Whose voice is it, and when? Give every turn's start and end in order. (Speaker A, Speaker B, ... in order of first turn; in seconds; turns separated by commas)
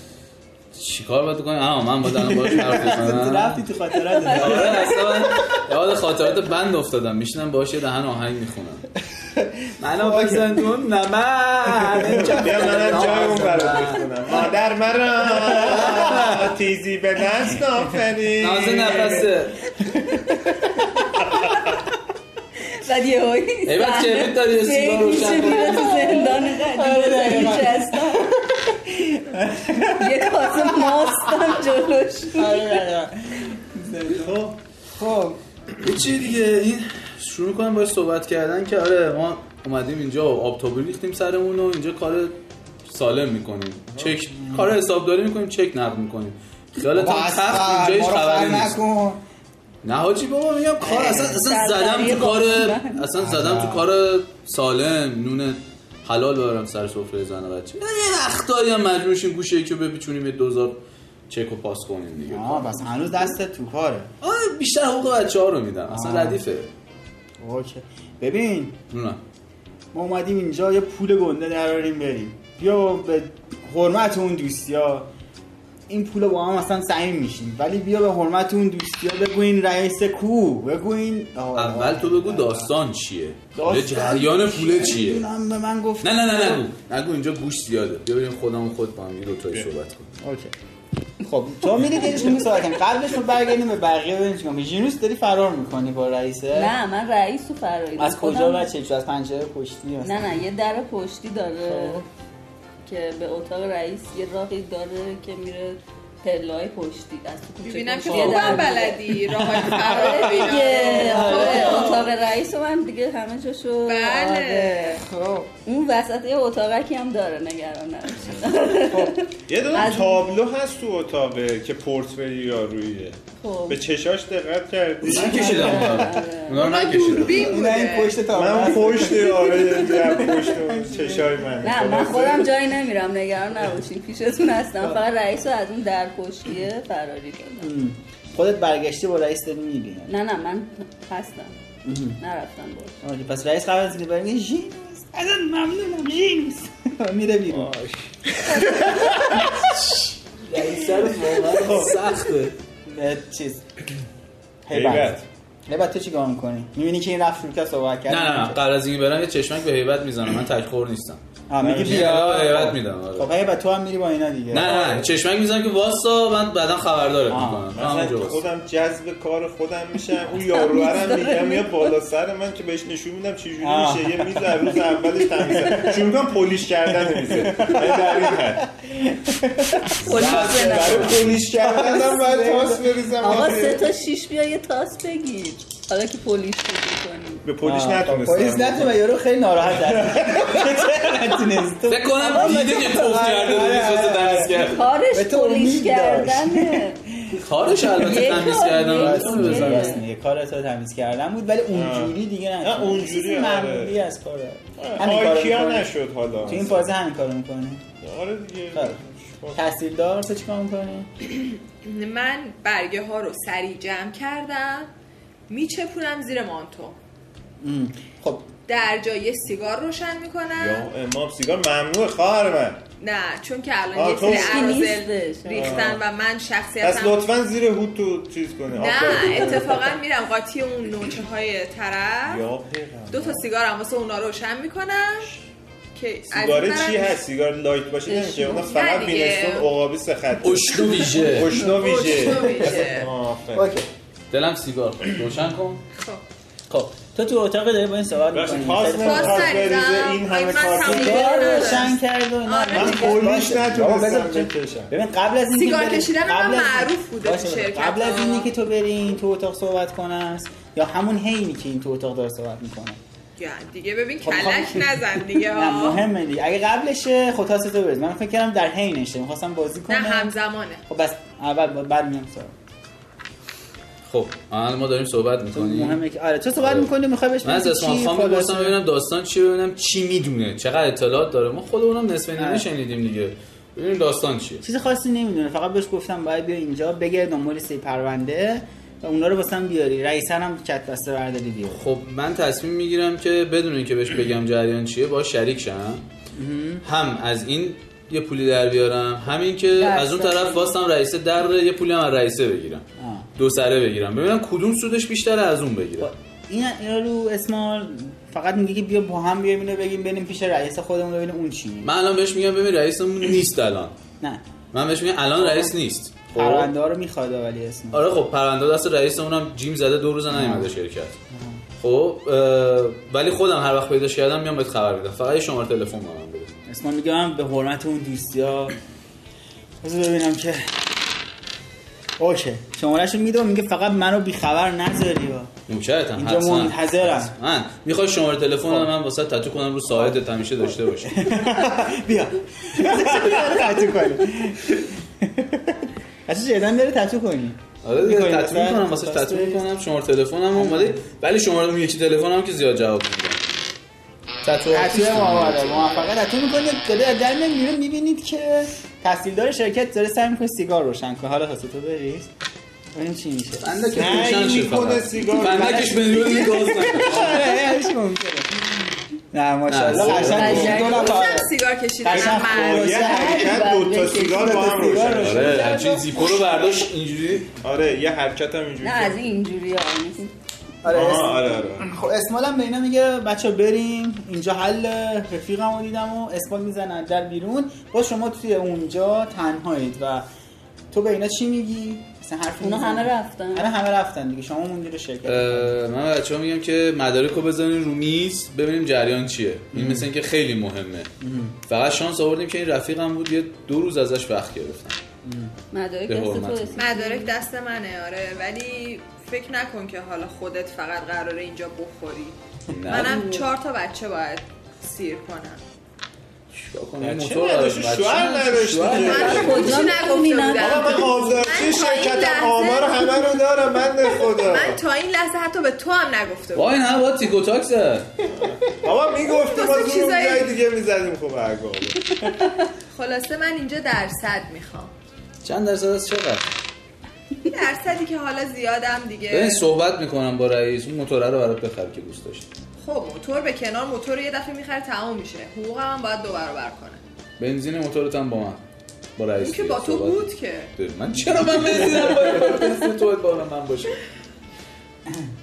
Speaker A: 0.7-3.6, Speaker B: 2.2-5.7, Speaker A: 4.2-8.9, Speaker B: 9.4-10.7, Speaker A: 9.8-14.1, Speaker B: 11.8-12.8, Speaker C: 12.2-19.3, Speaker B: 15.2-16.4, Speaker A: 15.3-16.5, Speaker A: 18.4-19.7, Speaker B: 19.8-21.0, Speaker D: 22.7-28.3, Speaker A: 23.7-26.2, Speaker B: 25.3-31.6, Speaker D: 29.8-32.7, Speaker B: 32.3-35.4, Speaker C: 34.1-34.5, Speaker A: 35.8-42.3, Speaker A: 42.9-48.8, Speaker B: 44.3-44.8, Speaker B: 46.8-49.2, Speaker A: 49.8-62.8, Speaker B: 50.8-51.4, Speaker D: 51.2-53.0, Speaker B: 53.2-53.9, Speaker B: 62.3-64.1, Speaker A: 64.2-66.7, Speaker B: 65.9-66.4, Speaker B: 67.4-68.8, Speaker A: 68.9-69.2, Speaker B: 69.9-75.1, Speaker B: 75.9-82.7, Speaker A: 81.5-85.2, Speaker B: 83.5-86.6, Speaker A: 86.0-90.1, Speaker B: 90.2-90.5, Speaker B: 91.2-96.7, Speaker D: 96.5-98.7, Speaker B: 98.0-100.4, Speaker D: 100.0-102.0, Speaker B: 101.6-102.0, Speaker D: 102.8-115.0, Speaker E: 107.6-112.1, Speaker B: 108.0-108.7, Speaker B: 109.3-112.1, Speaker E: 113.8-115.0, Speaker B: 115.0-115.5, Speaker D: 115.6-120.3, Speaker C: 119.5-125.9, Speaker D: 123.4-123.8, Speaker B: 125.0-126.2, Speaker A: 125.0-127.5, Speaker D: 125.1-126.8, Speaker E: 126.5-128.2, Speaker B: 127.3-131.3, Speaker C: 128.3-132.5, Speaker D: 129.4-130.5, Speaker D: 131.6-137.7, Speaker B: 137.6-140.1, Speaker D: 140.1-141.6, Speaker B: 141.8-142.2, Speaker D: 142.2-143.0, Speaker B: 143.0-147.7, Speaker C: 147.5-149.2, Speaker B: 148.5-149.7, Speaker A: 149.4-152.5, Speaker B: 150.6-152.0, Speaker B: 152.8-153.6, Speaker B: 154.7-158.6, Speaker C: 154.7-155.2, Speaker A: 158.1-163.3, Speaker B: 161.5-164.8, Speaker C: 161.6-162.0, Speaker A: 164.5-168.4, Speaker C: 164.6-165.1, Speaker B: 167.3-167.7, Speaker C: 167.7-178.7, Speaker D: 170.4-171.9, Speaker B: 173.6-176.2, Speaker B: 176.8-182.8, Speaker D: 180.0-181.2, Speaker A: 180.1-181.4, Speaker C: 180.1-183.9, Speaker D: 183.2-187.4, Speaker C: 187.4-189.0, Speaker B: 187.6-207.8, Speaker C: 189.7-191.1, Speaker A: 191.9-194.9, Speaker D: 194.5-197.0, Speaker A: 197.3-199.9, Speaker D: 198.0-200.0, Speaker C: 201.7-203.9, Speaker C: 204.8-206.9, Speaker C: 208.0-209.7, Speaker B: 208.7-209.0, Speaker B: 209.5-211.2, Speaker E: 211.8-214.9, Speaker E: 215.5-217.0, Speaker B: 217.6-218.5, Speaker E: 218.7-220.9, Speaker C: 220.6-222.8, Speaker E: 223.0-227.2, Speaker C: 223.9-224.8, Speaker D: 224.2-225.9, Speaker C: 225.5-226.0, Speaker C: 226.8-230.0, Speaker E: 228.7-232.5, Speaker C: 232.2-233.5, Speaker E: 233.1-235.3, Speaker E: 235.9-237.2, Speaker C: 236.3-243.7, Speaker D: 238.1-238.6, Speaker E: 238.4-239.7, Speaker A: 240.4-241.5, Speaker E: 241.5-243.1, Speaker B: 242.4-243.0, Speaker B: 243.5-243.9, Speaker A: 244.3-245.8, Speaker E: 245.9-246.2, Speaker B: 246.7-249.7, Speaker C: 248.3-251.6, Speaker E: 249.0-253.3, Speaker B: 250.8-263.0, Speaker D: 251.2-251.8, Speaker C: 252.7-254.9, Speaker E: 255.5-258.5, Speaker E: 263.4-266.1, Speaker B: 264.2-264.9, Speaker B: 265.5-270.3, Speaker E: 269.9-270.8, Speaker B: 270.9-272.5, Speaker A: 274.0-276.0, Speaker B: 275.5-278.8, Speaker A: 276.6-276.9, Speaker A: 277.4-284.6, Speaker B: 282.4-282.6, Speaker B: 284.6-291.9, Speaker A: 291.7-296.0, Speaker B: 296.3-296.8, Speaker A: 296.8-302.8, Speaker D: 299.8-300.7, Speaker B: 303.0-303.3, Speaker A: 303.4-306.1, Speaker B: 306.0-311.9, Speaker A: 311.8-313.9, Speaker A: 314.7-316.7, Speaker B: 315.4-315.7, Speaker B: 316.3-318.1, Speaker A: 317.9-321.1, Speaker B: 320.3-320.7, Speaker B: 321.3-321.6, Speaker A: 321.8-326.5, Speaker B: 326.7-328.7, Speaker B: 329.8-330.8, Speaker B: 332.2-335.5, Speaker A: 335.7-341.3, Speaker B: 336.1-337.3, Speaker B: 339.9-340.2, Speaker B: 341.1-349.6, Speaker A: 347.8-353.4, Speaker B: 350.5-351.0, Speaker A: 354.4-356.1, Speaker B: 354.7-362.3, Speaker B: 362.9-364.3, Speaker A: 363.6-367.5, Speaker C: 363.9-366.4, Speaker B: 365.6-371.5, Speaker C: 367.0-367.5, Speaker A: 369.7-370.7, Speaker C: 369.9-371.0, Speaker D: 370.3-371.2, Speaker E: 370.4-373.0, Speaker B: 372.0-376.7, Speaker C: 372.1-375.7, Speaker D: 372.9-375.0, Speaker A: 375.2-377.5, Speaker C: 377.6-379.2, Speaker D: 378.8-380.3, Speaker B: 380.8-390.2, Speaker C: 380.9-381.9, Speaker B: 390.9-395.7, Speaker D: 392.6-393.7, Speaker A: 395.2-401.1, Speaker B: 399.7-400.1, Speaker B: 401.2-401.6, Speaker A: 401.7-405.0, Speaker B: 405.2-405.5, Speaker D: 405.7-407.4, Speaker A: 406.1-406.8, Speaker E: 406.8-415.6, Speaker A: 412.7-413.2, Speaker D: 412.9-413.5, Speaker A: 416.5-419.6, Speaker C: 417.0-419.8, Speaker E: 418.9-423.5, Speaker D: 419.0-421.3, Speaker C: 420.5-424.8, Speaker E: 424.1-426.8, Speaker A: 426.5-428.1, Speaker C: 428.2-432.2, Speaker E: 429.2-430.6, Speaker E: 432.9-434.9, Speaker A: 435.4-436.5, Speaker E: 437.4-439.6, Speaker A: 439.3-442.5, Speaker E: 442.8-447.0, Speaker A: 447.4-448.6, Speaker A: 449.2-454.0, Speaker E: 449.4-450.7, Speaker B: 451.3-452.0